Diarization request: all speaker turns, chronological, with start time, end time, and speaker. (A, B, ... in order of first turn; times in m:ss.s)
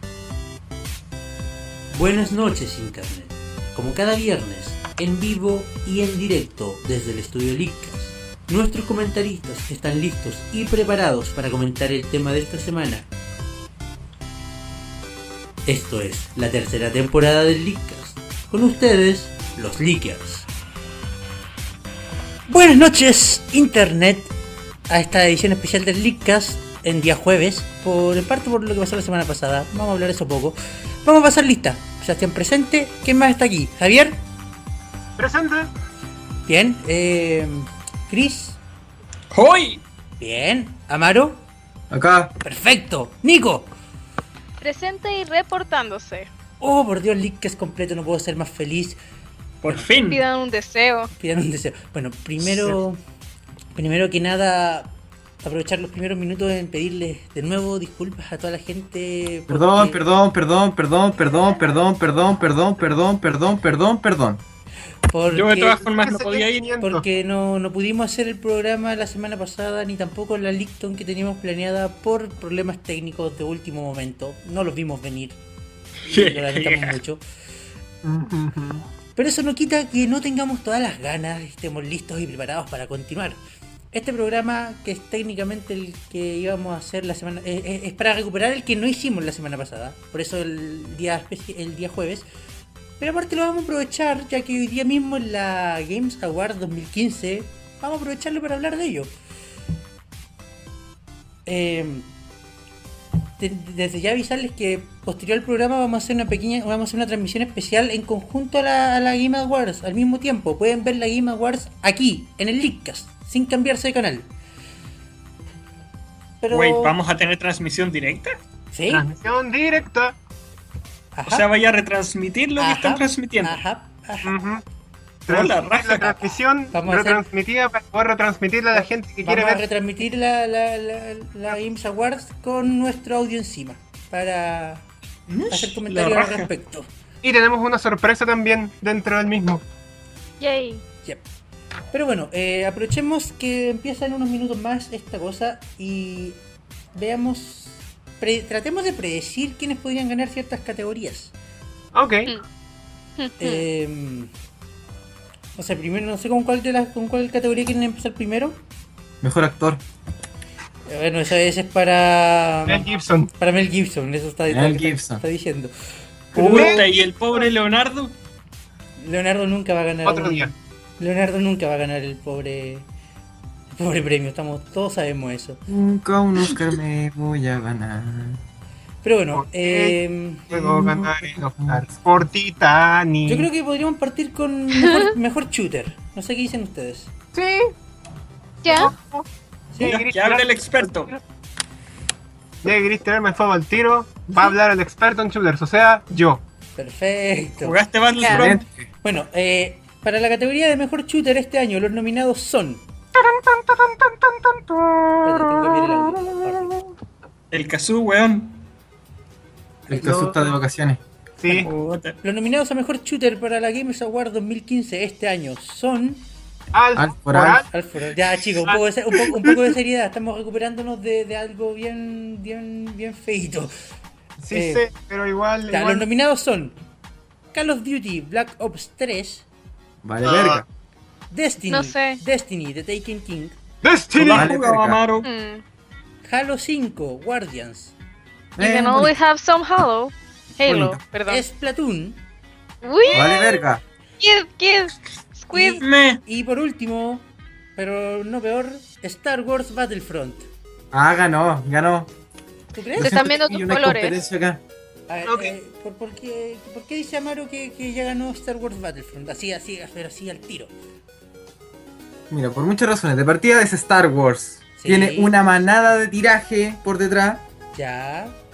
0:01.9-0:13.1 A
0:15.6-0:20.5 A
0:22.5-0:24.3 A
0:24.9-0:34.2 A
0:35.2-0:35.7 B
0:36.5-0:38.6 A
0:39.3-0:39.8 C
0:40.2-0:41.4 A
0:41.9-0:42.3 D
0:42.4-0:43.7 A
0:44.6-0:46.3 E
0:46.6-0:49.0 A
0:49.6-0:50.2 C
0:50.1-0:51.1 E
0:51.1-0:53.0 A
0:53.8-1:00.0 A
0:59.5-1:04.4 D
1:05.1-1:05.8 A
1:05.3-1:06.7 C
1:05.8-1:07.0 B
1:06.8-1:15.4 A
1:16.0-1:17.2 A
1:16.1-1:17.0 C
1:18.0-1:18.9 B
1:19.2-1:23.4 A
1:23.9-1:32.3 A
1:33.0-1:39.1 A
1:41.5-1:42.1 A
1:43.4-1:54.3 A
1:56.4-1:57.0 A
1:56.5-1:58.4 C
1:58.7-1:59.1 A
1:58.9-2:00.2 B
2:01.2-2:01.5 A
2:01.3-2:03.6 C
2:02.6-2:04.4 A
2:04.2-2:04.6 B
2:05.3-2:09.6 B
2:05.3-2:06.4 C
2:06.7-2:07.2 A
2:08.8-2:14.9 A
2:15.3-2:16.5 C
2:15.5-2:16.9 A
2:17.2-2:19.6 B
2:20.4-2:20.8 E
2:21.9-2:26.4 A
2:26.9-2:31.3 A
2:31.9-2:32.3 B
2:33.2-2:33.6 E
2:33.4-2:34.3 A
2:35.6-2:38.6 A
2:39.2-2:39.8 D
2:40.9-2:42.8 A
2:42.7-2:43.3 B
2:43.4-2:45.7 A
2:44.5-2:45.2 D
2:46.3-2:46.7 A
2:46.4-2:48.2 C
2:46.5-2:46.8 D
2:46.5-2:46.8 B
2:49.0-2:52.9 A
2:50.1-2:50.5 B
2:53.7-2:55.6 A
2:55.7-2:58.4 D
2:59.0-3:01.4 A
2:59.4-3:00.0 B
3:00.5-3:03.5 B
3:03.3-3:07.1 A
3:04.8-3:05.1 E
3:07.3-3:07.7 B
3:08.6-3:08.9 E
3:08.6-3:09.3 B
3:09.7-3:10.0 A
3:09.8-3:11.1 B
3:09.8-3:11.2 C
3:12.6-3:16.4 B
3:16.8-3:17.8 A
3:17.6-3:18.6 C
3:18.2-3:18.5 E
3:18.2-3:18.8 D
3:19.0-3:22.8 A
3:23.2-3:25.3 B
3:25.2-3:26.8 A
3:27.5-3:28.6 C
3:29.9-3:30.5 A
3:29.9-3:31.0 D
3:31.4-3:31.7 B
3:31.5-3:32.2 C
3:32.2-3:36.3 A
3:36.7-3:37.7 B
3:37.0-3:37.6 D
3:37.6-3:43.7 A
3:38.7-3:39.6 B
3:44.4-3:46.1 B
3:44.5-3:44.9 A
3:45.7-3:46.8 A
3:47.5-3:49.5 A
3:50.0-3:50.6 D
3:50.2-3:50.6 B
3:51.3-3:53.6 A
3:51.7-3:52.2 E
3:53.8-3:54.5 B
3:54.2-3:55.3 C
3:54.3-3:55.0 D
3:55.2-3:55.6 E
3:56.2-3:57.9 A
3:58.6-3:59.1 D
3:58.6-4:01.4 E
4:00.7-4:01.0 D
4:01.3-4:02.2 A
4:02.8-4:03.6 E
4:03.1-4:03.8 D
4:04.2-4:05.8 E
4:05.5-4:10.5 A
4:05.8-4:06.2 C
4:10.9-4:12.1 D
4:12.7-4:13.2 A
4:13.0-4:14.2 E
4:13.0-4:14.6 D
4:15.1-4:20.7 A
4:15.2-4:15.5 B
4:22.3-4:27.4 D
4:24.8-4:25.4 A
4:27.7-4:28.4 A